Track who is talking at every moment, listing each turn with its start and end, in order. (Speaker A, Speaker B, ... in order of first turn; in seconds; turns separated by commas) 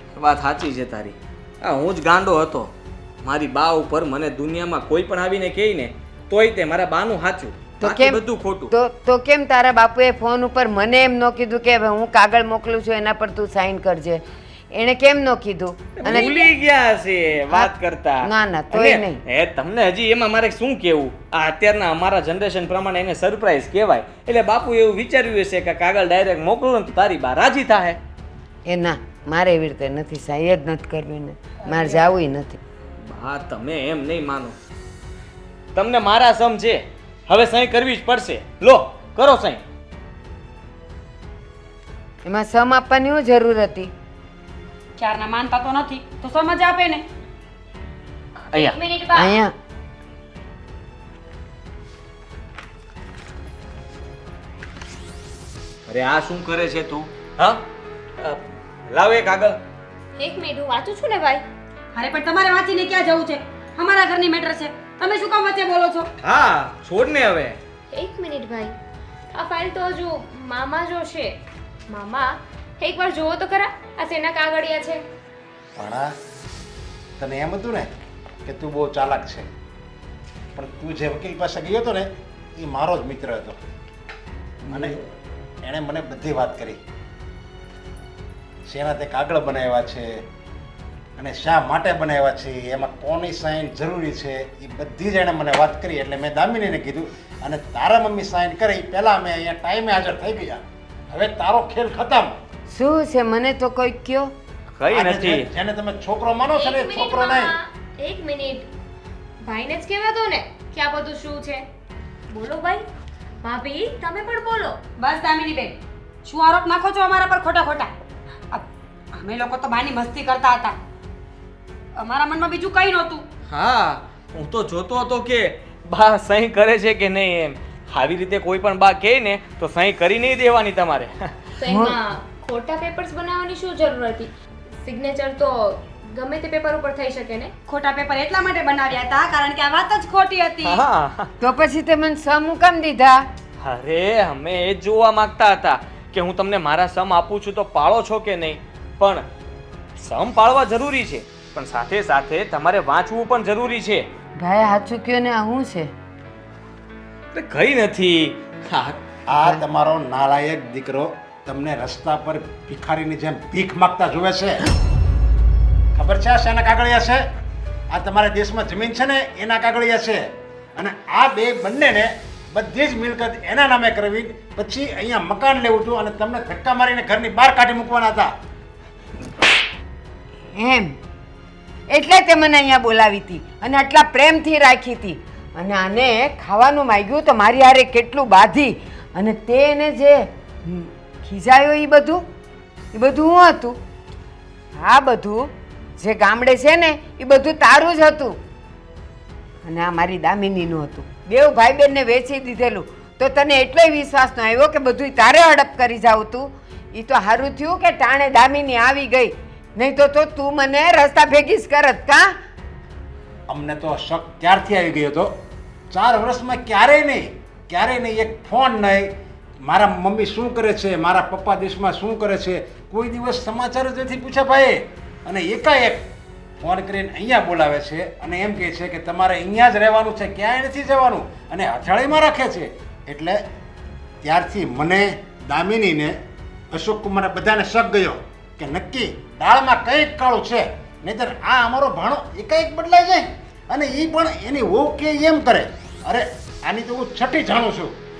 Speaker A: 0.2-8.7, Speaker B: 7.8-16.5, Speaker A: 16.0-28.0, Speaker B: 17.5-19.2, Speaker B: 28.7-32.6, Speaker A: 33.0-34.5, Speaker A: 35.8-39.6, Speaker B: 42.2-43.9, Speaker C: 45.0-47.0, Speaker A: 48.5-48.8, Speaker D: 48.5-49.4, Speaker B: 49.1-49.5, Speaker A: 55.9-57.7, Speaker A: 58.2-59.6, Speaker D: 60.2-61.4, Speaker C: 62.0-66.1, Speaker A: 66.2-67.6, Speaker D: 67.9-68.8, Speaker D: 69.3-75.0, Speaker E: 75.8-76.1, Speaker E: 77.2-77.9, Speaker E: 78.5-79.5, Speaker E: 80.5-83.6, Speaker A: 84.7-85.0, Speaker E: 84.7-85.0, Speaker E: 85.6-86.8, Speaker E: 88.7-90.2, Speaker E: 91.2-102.3, Speaker B: 102.7-104.3, Speaker A: 104.8-105.5, Speaker E: 104.9-107.5, Speaker D: 106.6-108.7, Speaker D: 109.4-111.7, Speaker D: 112.3-112.9, Speaker D: 113.4-114.8, Speaker C: 115.0-117.9, Speaker C: 118.5-120.8, Speaker C: 122.0-123.3, Speaker A: 123.5-131.3, Speaker D: 131.6-134.3, Speaker B: 131.7-132.0, Speaker D: 134.8-137.5, Speaker C: 137.7-140.8, Speaker A: 140.6-141.3, Speaker B: 141.4-143.3, Speaker A: 143.6-149.2, Speaker A: 150.0-154.1, Speaker B: 154.4-155.9, Speaker A: 157.3-159.0, Speaker E: 159.3-164.6, Speaker E: 165.9-167.2, Speaker E: 167.9-178.3, Speaker B: 180.6-181.0, Speaker B: 181.9-192.2, Speaker B: 192.9-193.8, Speaker B: 194.8-198.4, Speaker B: 199.6-212.4, Speaker E: 213.5-215.3, Speaker E: 215.9-219.1, Speaker E: 219.7-226.1, Speaker E: 226.6-233.4, Speaker E: 234.2-236.2, Speaker E: 236.7-247.9